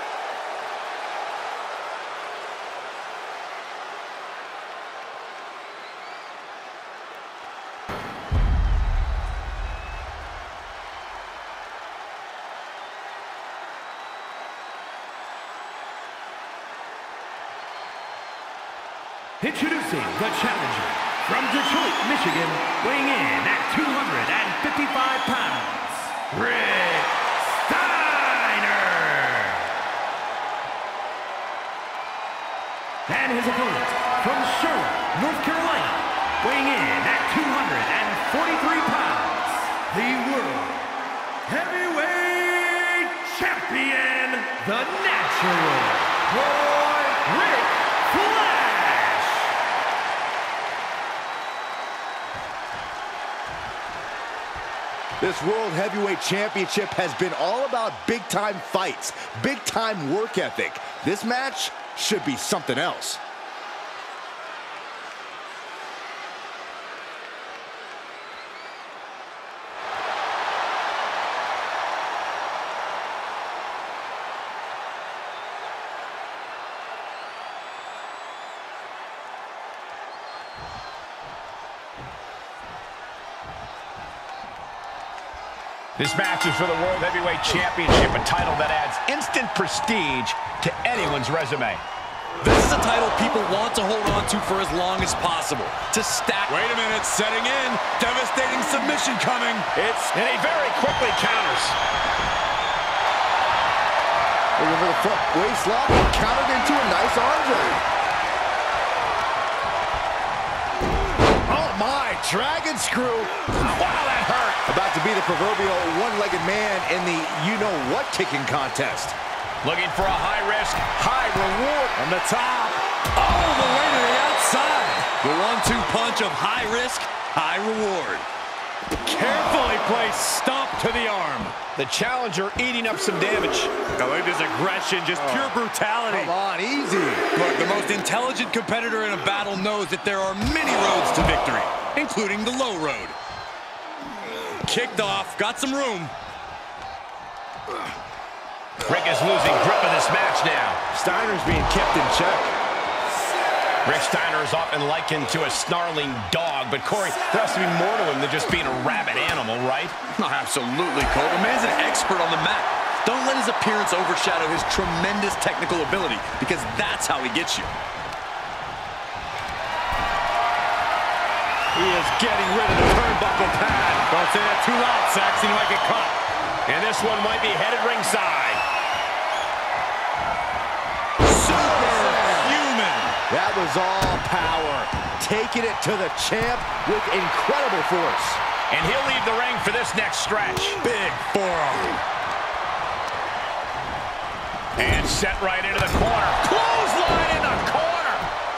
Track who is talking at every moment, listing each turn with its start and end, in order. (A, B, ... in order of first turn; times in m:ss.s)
0:19.5-0:29.6 A
0:33.1-0:40.8 A
0:41.5-0:49.5 A
0:55.2-1:03.2 B
1:26.0-1:31.8 C
1:32.4-1:39.7 D
1:39.8-1:41.8 C
1:44.6-1:47.8 B
1:51.5-1:53.3 B
1:53.6-1:54.6 C
1:54.7-1:59.2 B
1:59.6-2:02.0 C
2:02.0-2:08.3 D
2:09.0-2:11.6 D
2:11.8-2:13.7 C
2:14.0-2:16.3 D
2:15.1-2:15.6 B
2:16.1-2:17.3 B
2:17.3-2:23.2 D
2:24.6-2:26.1 D
2:28.9-2:30.8 C
2:30.9-2:32.5 B
2:33.8-2:40.0 C
2:40.1-2:47.7 D
2:51.8-2:56.2 D
2:56.7-2:58.6 C
3:01.2-3:03.2 D
3:01.5-3:02.6 B
3:03.3-3:08.4 B
3:08.7-3:10.8 C
3:10.8-3:12.0 D
3:14.8-3:18.3 C